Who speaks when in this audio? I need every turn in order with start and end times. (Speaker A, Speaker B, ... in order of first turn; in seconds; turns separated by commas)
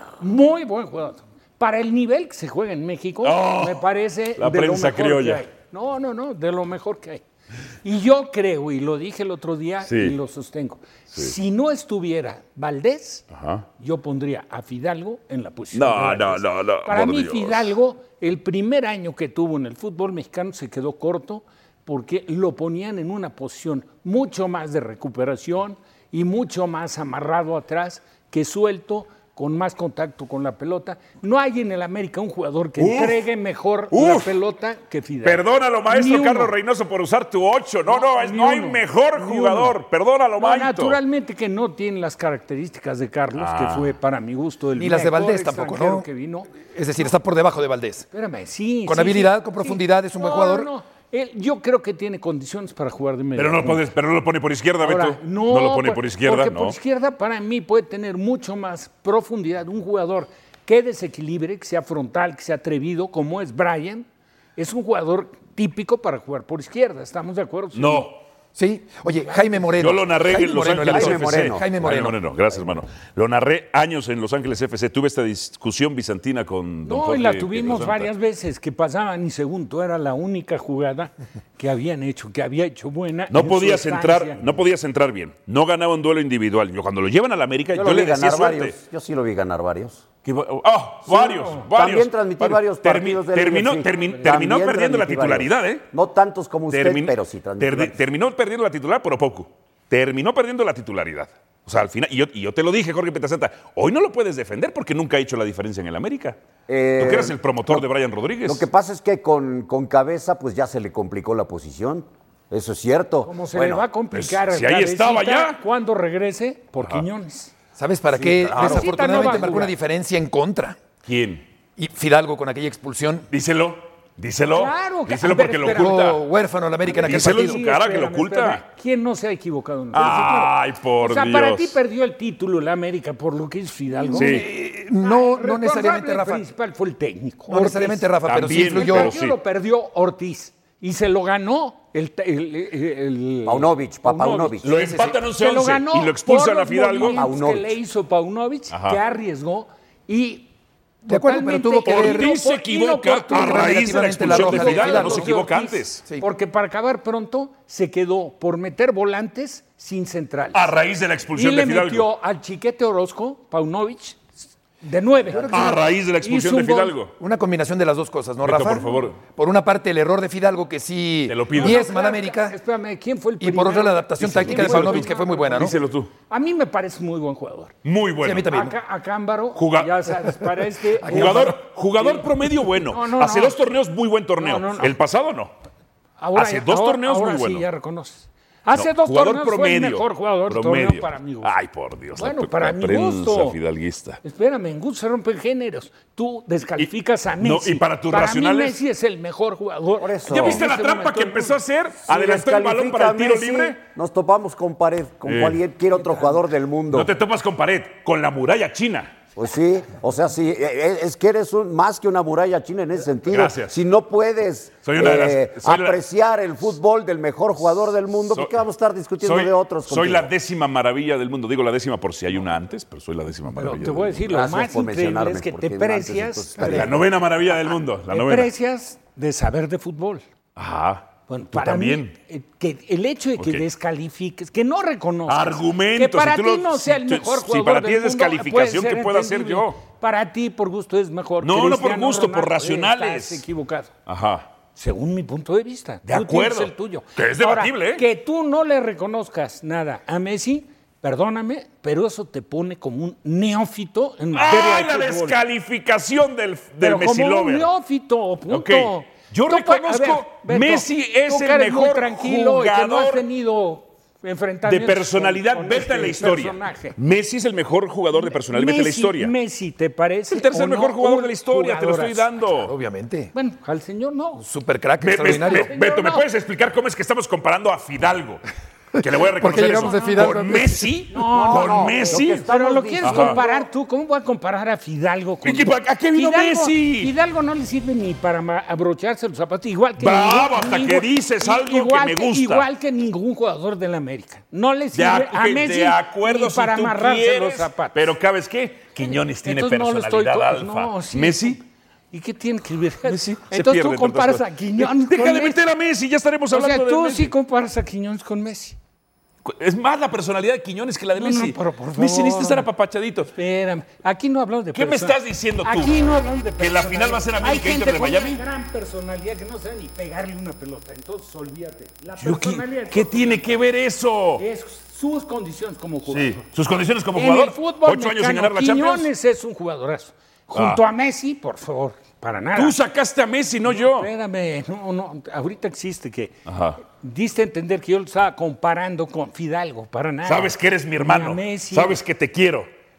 Speaker A: 0.2-7.2, Speaker B: 3.2-3.9, Speaker B: 4.4-5.4, Speaker A: 7.8-13.2, Speaker B: 9.8-10.2, Speaker B: 13.3-13.7, Speaker A: 13.8-36.5, Speaker B: 15.7-17.7, Speaker B: 32.8-33.2, Speaker B: 33.9-34.3, Speaker B: 35.2-41.0, Speaker A: 37.9-39.8, Speaker A: 40.4-46.5, Speaker B: 43.4-43.9, Speaker C: 44.8-46.1, Speaker C: 46.6-48.1, Speaker A: 48.1-53.8, Speaker C: 48.9-50.7, Speaker B: 53.4-56.8, Speaker A: 54.8-68.1, Speaker B: 67.7-68.2, Speaker C: 68.5-72.2, Speaker A: 69.3-69.7, Speaker B: 69.8-78.1, Speaker D: 70.6-71.9, Speaker A: 76.8-84.4, Speaker B: 83.3-88.8, Speaker D: 87.7-90.0, Speaker B: 90.2-95.8, Speaker A: 91.1-91.6, Speaker D: 91.5-98.0, Speaker B: 96.7-106.4, Speaker D: 106.7-107.8, Speaker B: 107.0-108.7, Speaker D: 108.4-113.8, Speaker A: 113.2-117.5, Speaker B: 114.1-115.6, Speaker B: 116.8-117.0, Speaker C: 117.8-120.8, Speaker D: 118.1-119.2, Speaker A: 118.5-119.7, Speaker B: 121.0-121.4, Speaker C: 121.8-123.3, Speaker B: 123.3-126.2, Speaker A: 124.5-126.1, Speaker C: 125.6-127.6, Speaker A: 126.8-144.6, Speaker B: 126.9-128.6, Speaker B: 129.9-131.8, Speaker C: 134.0-136.4, Speaker B: 134.1-134.4, Speaker C: 137.5-139.1, Speaker B: 138.2-139.3, Speaker D: 143.4-144.8, Speaker B: 144.6-147.2, Speaker C: 144.7-145.2, Speaker A: 145.2-150.5, Speaker D: 147.0-147.7, Speaker B: 148.7-149.0, Speaker A: 151.0-160.7, Speaker C: 151.1-152.3, Speaker B: 151.8-156.0, Speaker C: 153.3-155.3, Speaker B: 160.5-162.1, Speaker A: 161.3-166.9, Speaker C: 165.3-165.8, Speaker B: 165.5-167.1, Speaker C: 167.2-172.6, Speaker B: 168.4-169.2, Speaker B: 171.3-171.9, Speaker A: 171.5-175.8, Speaker C: 173.4-175.7, Speaker B: 174.2-176.1, Speaker A: 176.3-177.7, Speaker B: 177.8-178.6, Speaker C: 178.2-178.7, Speaker A: 178.5-182.3, Speaker B: 179.5-180.3, Speaker C: 181.0-181.6, Speaker B: 181.1-185.5, Speaker A: 182.8-183.6, Speaker A: 184.4-184.9, Speaker A: 186.2-191.5, Speaker B: 186.3-187.7, Speaker B: 188.7-194.2, Speaker A: 192.2-193.6, Speaker A: 194.2-201.6, Speaker B: 197.4-198.8, Speaker D: 200.0-200.6, Speaker B: 200.3-203.8, Speaker D: 202.0-207.1, Speaker B: 205.2-205.6, Speaker B: 206.9-209.1, Speaker D: 209.3-220.3, Speaker B: 213.3-213.8, Speaker B: 214.8-216.0, Speaker B: 218.2-218.6, Speaker B: 219.2-224.2, Speaker A: 223.5-226.9, Speaker D: 224.3-227.0, Speaker B: 226.6-228.5, Speaker A: 228.1-230.2, Speaker B: 230.6-232.1, Speaker A: 231.3-243.9, Speaker B: 233.4-233.6, Speaker B: 235.3-239.8, Speaker B: 241.4-243.4, Speaker B: 244.1-244.5, Speaker A: 244.8-255.4, Speaker B: 246.0-248.0, Speaker B: 254.3-257.7, Speaker A: 256.8-266.9, Speaker B: 258.5-263.2, Speaker B: 264.6-269.3, Speaker A: 268.1-272.3, Speaker B: 270.3-272.7, Speaker C: 272.5-273.3, Speaker A: 273.3-274.4, Speaker C: 274.4-275.7, Speaker B: 275.0-278.4, Speaker A: 275.2-276.2, Speaker B: 279.0-282.5, Speaker C: 279.4-280.9, Speaker A: 279.7-280.3, Speaker A: 281.1-298.1, Speaker D: 281.3-283.7, Speaker B: 283.0-283.4, Speaker B: 285.4-287.1, Speaker B: 290.0-292.7, Speaker B: 294.9-301.6, Speaker A: 299.0-305.6, Speaker B: 303.1-307.3, Speaker A: 306.5-308.8, Speaker B: 309.4-313.3, Speaker A: 311.1-312.7, Speaker A: 313.4-323.4, Speaker B: 314.7-316.0, Speaker B: 316.6-318.4, Speaker B: 322.2-324.4, Speaker A: 324.4-326.4, Speaker B: 326.1-329.1, Speaker A: 327.1-332.8, Speaker B: 330.5-330.8, Speaker B: 332.6-334.1, Speaker A: 333.6-342.0, Speaker B: 336.4-336.8, Speaker B: 340.2-342.7